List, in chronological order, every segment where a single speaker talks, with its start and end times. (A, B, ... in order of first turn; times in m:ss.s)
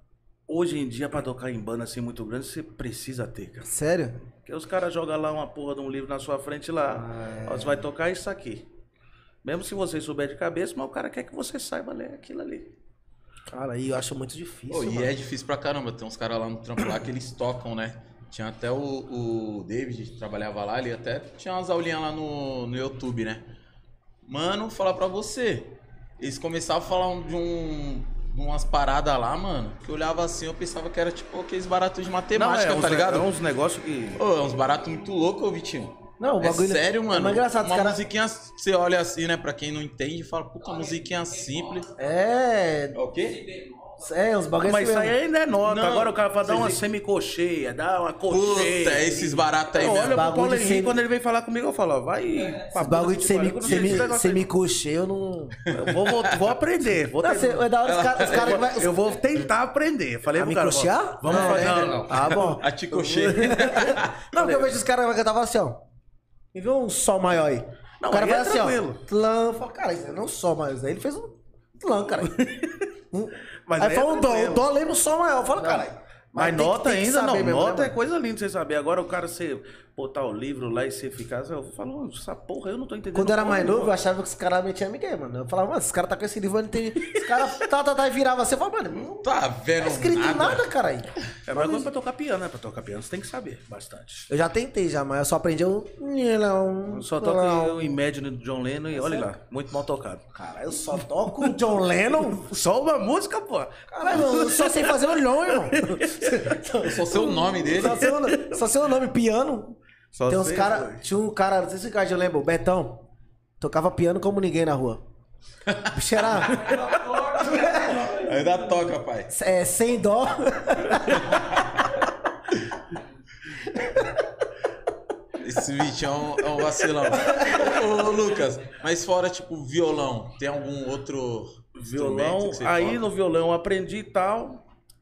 0:00.5-0:03.7 A
0:03.6-0:04.2 B
0:04.4-0:08.6 A
0:06.9-0:07.8 B
0:09.4-0:12.7 A
0:13.5-0:15.1 B
0:14.7-0:23.4 C
0:24.2-0:33.3 C
0:32.3-0:34.2 A
0:34.2-0:41.9 C
0:36.2-0:38.0 B
0:42.0-0:43.0 B
0:42.9-0:43.4 C
0:44.0-0:45.2 B
0:44.6-0:54.5 A
0:45.6-0:46.8 C
0:48.3-0:50.3 C
0:49.8-0:50.9 B
0:52.7-0:55.6 B
0:55.6-0:56.5 C
0:55.7-1:02.5 A
0:57.2-0:59.1 B
0:57.8-0:58.6 C
1:00.3-1:05.8 B
1:01.3-1:04.2 C
1:04.3-1:04.7 A
1:06.5-1:12.4 B
1:08.0-1:09.0 A
1:12.3-1:12.7 A
1:13.1-1:18.0 B
1:13.6-1:14.7 A
1:16.4-1:23.9 A
1:23.1-1:29.2 B
1:29.1-1:30.6 C
1:29.8-1:31.9 B
1:31.4-1:34.3 A
1:34.3-1:37.9 B
1:36.9-1:40.2 A
1:38.9-1:39.3 B
1:40.3-1:42.5 B
1:42.3-1:46.5 A
1:43.9-1:53.1 B
1:46.8-1:48.1 C
1:47.8-1:48.6 A
1:50.1-1:51.0 A
1:53.6-1:55.0 B
1:55.7-1:56.4 C
1:55.8-1:56.8 B
1:56.6-1:57.7 A
1:57.4-1:58.1 B
1:57.9-1:59.3 C
1:59.3-2:01.6 B
2:05.4-2:13.0 C
2:11.8-2:14.6 A